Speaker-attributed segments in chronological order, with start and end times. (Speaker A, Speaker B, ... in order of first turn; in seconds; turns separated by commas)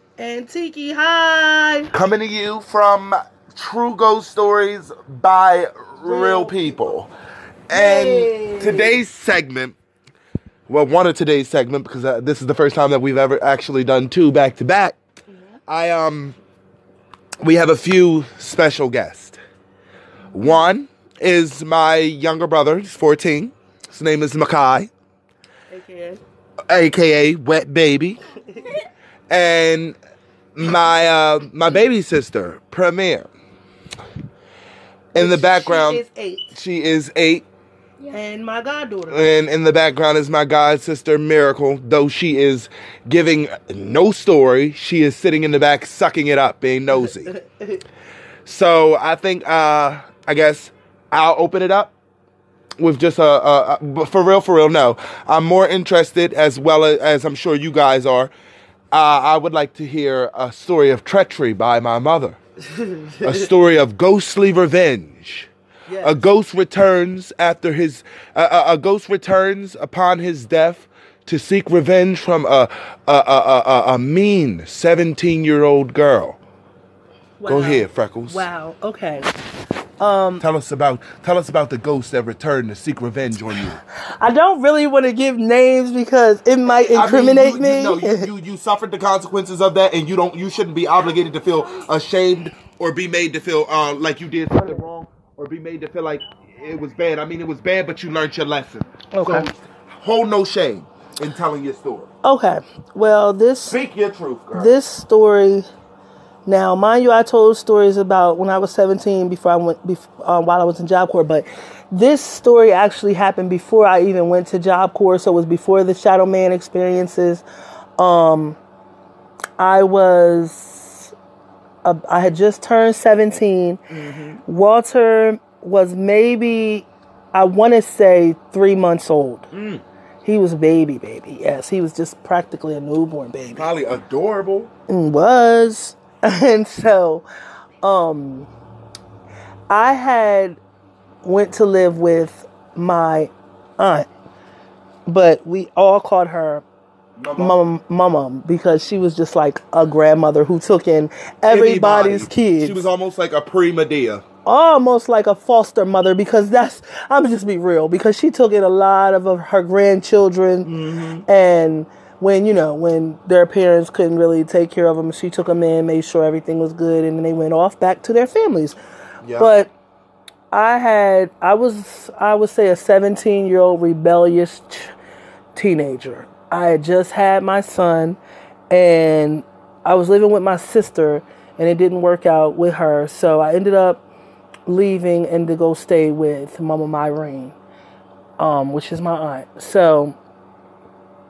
Speaker A: 0.2-1.9, Speaker B: 1.9-7.1, Speaker A: 6.0-6.8, Speaker B: 7.7-9.8, Speaker A: 7.7-9.0, Speaker B: 10.7-15.0, Speaker B: 15.7-16.4, Speaker B: 17.4-19.4, Speaker B: 20.3-24.9, Speaker A: 25.7-26.2, Speaker B: 26.7-28.2, Speaker A: 28.5-28.8, Speaker B: 29.3-30.0, Speaker B: 30.6-33.3, Speaker A: 35.1-36.5, Speaker B: 35.1-37.5, Speaker A: 38.1-39.2, Speaker B: 39.1-47.3, Speaker A: 47.2-47.8, Speaker B: 48.5-51.9, Speaker B: 52.8-58.3, Speaker B: 58.9-62.4, Speaker A: 62.7-63.5, Speaker B: 63.2-65.5, Speaker A: 65.9-66.2, Speaker B: 66.0-76.4, Speaker A: 77.4-79.3, Speaker B: 77.5-78.5, Speaker A: 80.0-80.4, Speaker B: 80.4-83.8, Speaker A: 84.2-88.3, Speaker B: 86.7-102.1, Speaker A: 99.1-99.5, Speaker A: 102.2-103.8, Speaker B: 103.7-104.7, Speaker A: 104.5-105.7, Speaker A: 106.5-117.4, Speaker A: 118.0-118.6, Speaker A: 119.6-121.1, Speaker A: 121.8-123.8, Speaker B: 123.9-124.4, Speaker A: 124.4-129.5, Speaker B: 129.5-129.8, Speaker A: 130.2-133.7, Speaker B: 133.6-134.7, Speaker A: 134.9-137.2, Speaker A: 137.8-138.5, Speaker A: 139.7-140.6, Speaker A: 141.2-144.1, Speaker A: 145.1-146.6, Speaker B: 147.2-147.6, Speaker A: 147.4-152.9, Speaker B: 151.5-154.2, Speaker A: 154.4-160.7, Speaker B: 160.6-161.2, Speaker A: 161.3-168.8, Speaker B: 169.2-169.5, Speaker A: 169.4-169.7, Speaker A: 170.5-174.9, Speaker A: 175.6-178.2, Speaker A: 178.7-184.0, Speaker A: 184.7-187.6, Speaker A: 188.4-190.2